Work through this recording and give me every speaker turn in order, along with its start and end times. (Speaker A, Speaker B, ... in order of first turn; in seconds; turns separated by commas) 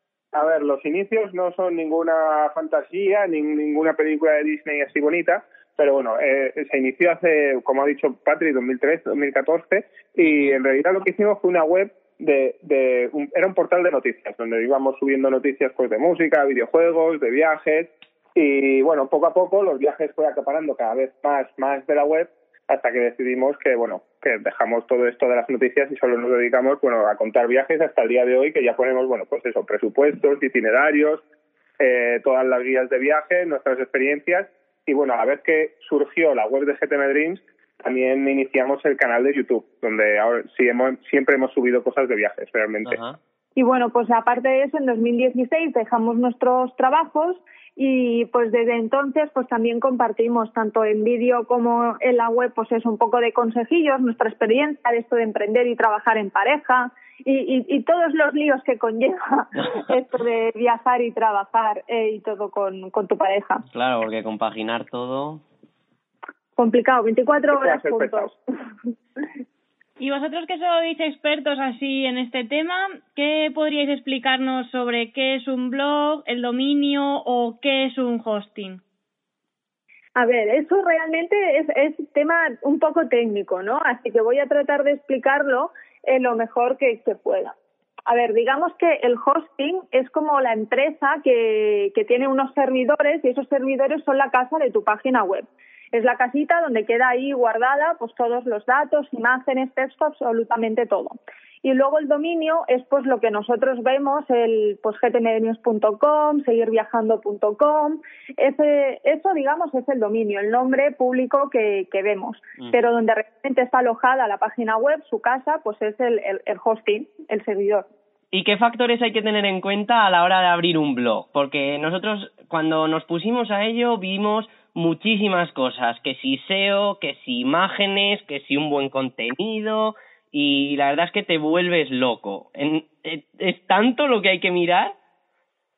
Speaker A: 0.3-31.2, Speaker A: 31.8-43.0, Speaker B: 42.8-43.2, Speaker C: 43.5-63.6, Speaker B: 63.7-65.4, Speaker C: 66.6-68.3, Speaker A: 67.5-68.3, Speaker D: 70.0-78.8, Speaker C: 80.2-87.5, Speaker C: 88.1-117.8, Speaker B: 118.3-134.9